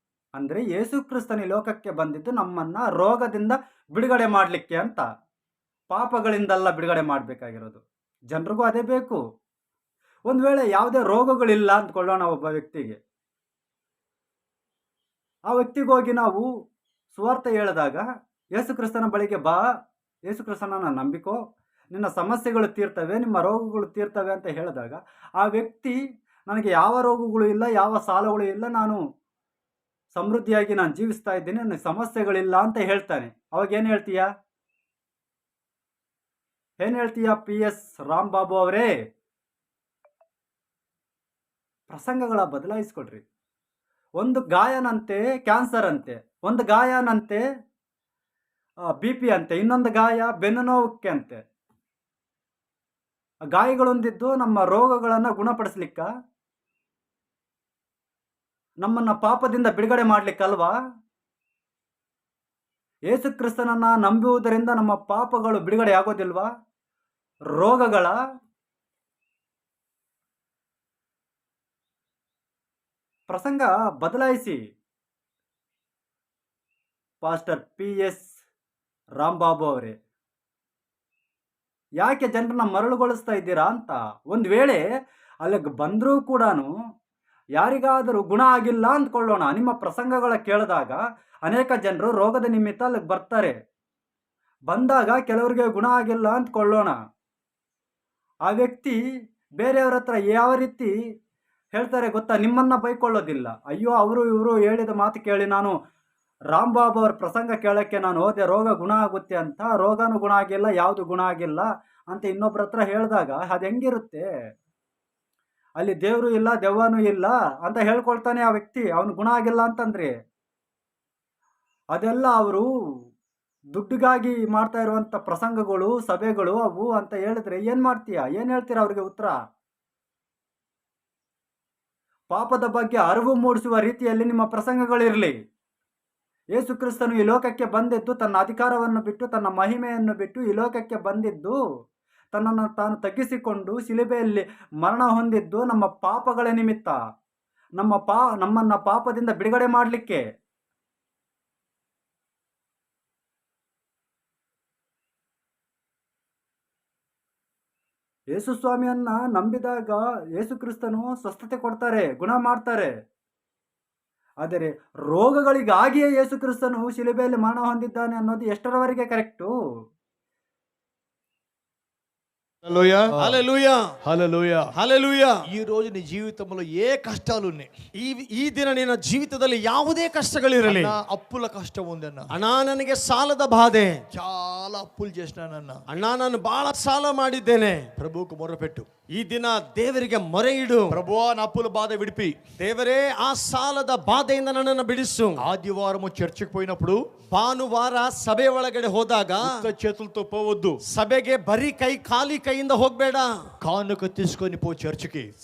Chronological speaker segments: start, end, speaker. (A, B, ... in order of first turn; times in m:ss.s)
0:00.4-0:05.0 A
0:05.9-0:07.8 A
0:08.3-0:09.2 A
0:10.3-0:13.0 A
0:15.5-0:16.4 A
0:17.1-0:18.0 A
0:18.6-0:19.6 A
0:20.3-0:21.4 A
0:21.9-0:25.9 A
0:26.5-0:29.0 A
0:30.1-0:34.2 A
0:36.8-0:38.9 A
0:41.9-0:43.2 A
0:44.2-0:47.4 A
0:49.0-0:51.4 A
0:53.5-0:56.1 A
0:58.8-1:00.7 A
1:03.1-1:06.5 A
1:07.6-1:08.1 A
1:13.3-1:14.6 A
1:17.2-1:18.3 A
1:19.2-1:19.9 A
1:22.0-1:24.8 A
1:25.4-1:26.7 A
1:27.6-1:33.5 A
1:34.7-1:37.0 A
1:38.5-1:39.0 A
1:39.6-1:40.9 A
1:41.7-1:45.7 A
1:46.5-1:54.2 A
1:55.8-2:00.1 A
2:01.9-2:02.6 A
2:03.7-2:09.4 A
2:12.3-2:15.3 A
2:16.5-2:21.6 A
2:22.3-2:27.0 A
2:27.8-2:30.2 A
2:38.3-2:42.9 A
2:44.4-2:49.5 A
2:52.6-2:53.4 B
2:53.2-2:53.8 C
2:54.0-2:54.7 B
2:54.7-2:55.4 C
2:55.5-2:57.7 B
2:58.0-3:01.0 C
3:00.6-3:02.3 B
3:02.3-3:03.9 C
3:04.1-3:05.8 B
3:05.9-3:07.8 C
3:08.0-3:08.9 B
3:09.2-3:11.0 C
3:10.9-3:12.4 B
3:12.6-3:15.4 C
3:15.4-3:17.0 B
3:17.3-3:19.5 C
3:19.4-3:20.8 B
3:20.9-3:23.3 C
3:23.6-3:25.3 B